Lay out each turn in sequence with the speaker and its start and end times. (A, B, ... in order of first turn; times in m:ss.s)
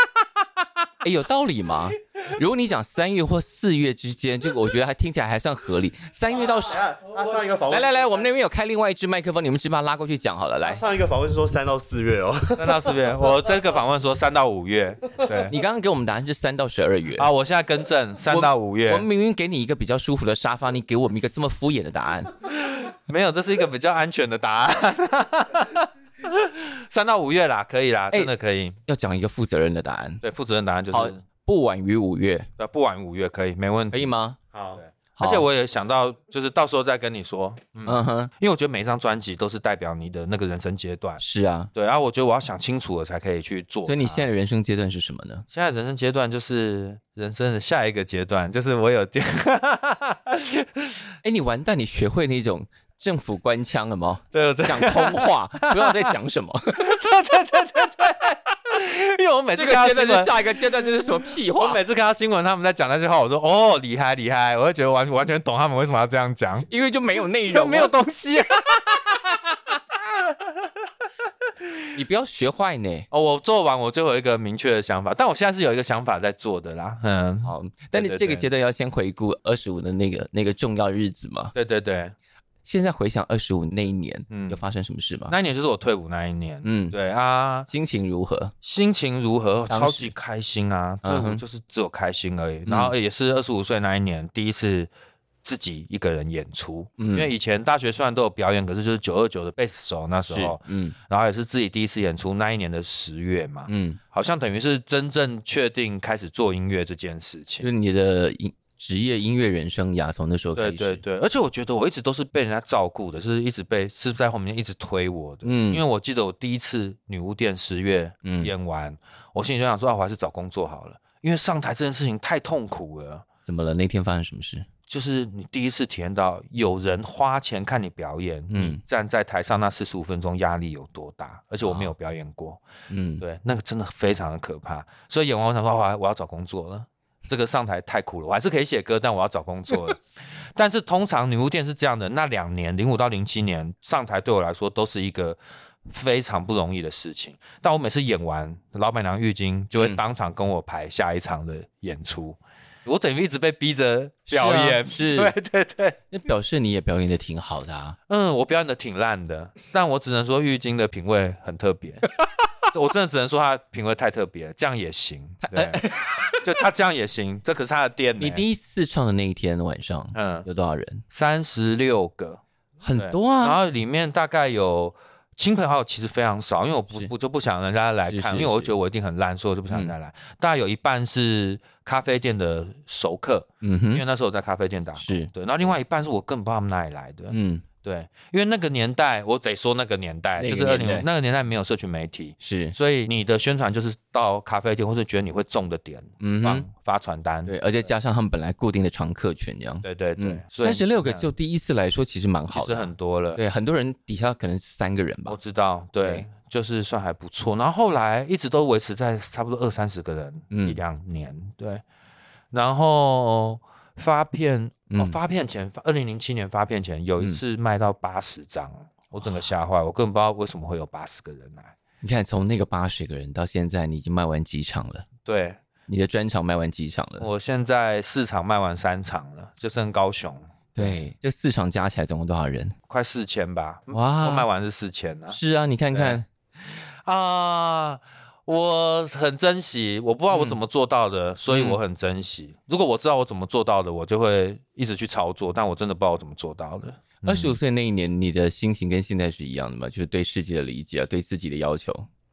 0:01.0-0:06.8 A
0:06.3-0:08.2 B
0:07.7-0:10.8 A
0:10.6-0:13.0 B
0:12.6-0:15.5 C
0:15.5-0:17.3 A
0:17.2-0:19.0 C
0:18.3-0:22.3 A
0:22.5-0:28.8 C
0:28.8-0:30.2 A
0:30.2-0:31.2 C
0:30.9-0:32.5 A
0:32.6-0:34.1 C
0:33.9-0:34.4 A
0:34.5-0:34.8 B
0:34.8-0:41.2 C
0:35.2-0:35.4 A
0:37.8-0:38.3 A
0:41.2-0:41.7 A
0:41.7-0:44.2 C
0:43.8-0:45.4 A
0:45.5-0:51.0 C
0:51.2-0:57.0 A
0:54.3-0:56.2 C
0:56.8-1:06.7 C
0:59.5-1:01.8 A
1:06.7-1:07.9 A
1:07.4-1:10.7 C
1:11.9-1:13.1 A
1:13.1-1:18.4 C
1:17.4-1:21.5 A
1:21.5-1:22.1 C
1:22.6-1:25.3 A
1:24.3-1:24.6 C
1:25.3-1:27.7 C
1:26.6-1:26.9 A
1:27.7-1:28.5 A
1:28.6-1:34.9 C
1:29.7-1:30.1 A
1:31.0-1:31.4 A
1:32.6-1:32.9 A
1:35.4-1:47.7 C
1:37.0-1:37.3 A
1:40.3-1:40.9 A
1:43.7-1:44.0 A
1:47.6-1:51.0 A
1:50.6-2:03.2 C
1:55.4-1:55.8 A
1:58.2-1:58.5 A
2:03.4-2:04.7 A
2:04.9-2:12.6 C
2:08.5-2:08.8 A
2:11.6-2:11.9 A
2:12.9-2:13.2 A
2:13.2-2:36.0 C
2:34.3-2:35.3 A
2:36.1-2:38.0 A
2:38.1-2:42.1 C
2:42.7-2:45.8 C
2:45.4-2:46.4 A
2:46.4-2:48.4 C
2:48.2-2:51.0 A
2:50.1-2:50.4 C
2:51.1-2:52.4 C
2:52.8-2:53.6 A
2:52.9-3:17.5 C
2:58.1-2:58.7 A
3:03.6-3:04.0 A
3:05.0-3:05.3 A
3:07.3-3:07.6 A
3:10.4-3:11.0 A
3:12.4-3:12.8 A
3:16.2-3:16.7 A
3:17.4-3:25.4 A
3:19.8-3:21.3 C
3:22.5-3:23.4 C
3:25.3-3:31.8 C
3:30.5-3:30.8 A
3:32.5-3:41.7 C
3:34.9-3:35.2 A
3:42.0-3:45.1 A
3:45.2-3:45.6 C
3:45.9-3:47.3 A
3:47.2-3:51.0 C
3:50.8-3:52.8 A
3:52.9-3:55.4 C
3:53.9-3:54.5 A
3:55.3-3:56.2 A
3:55.9-4:07.6 C
4:00.3-4:00.6 A
4:01.5-4:01.8 A
4:07.2-4:12.1 A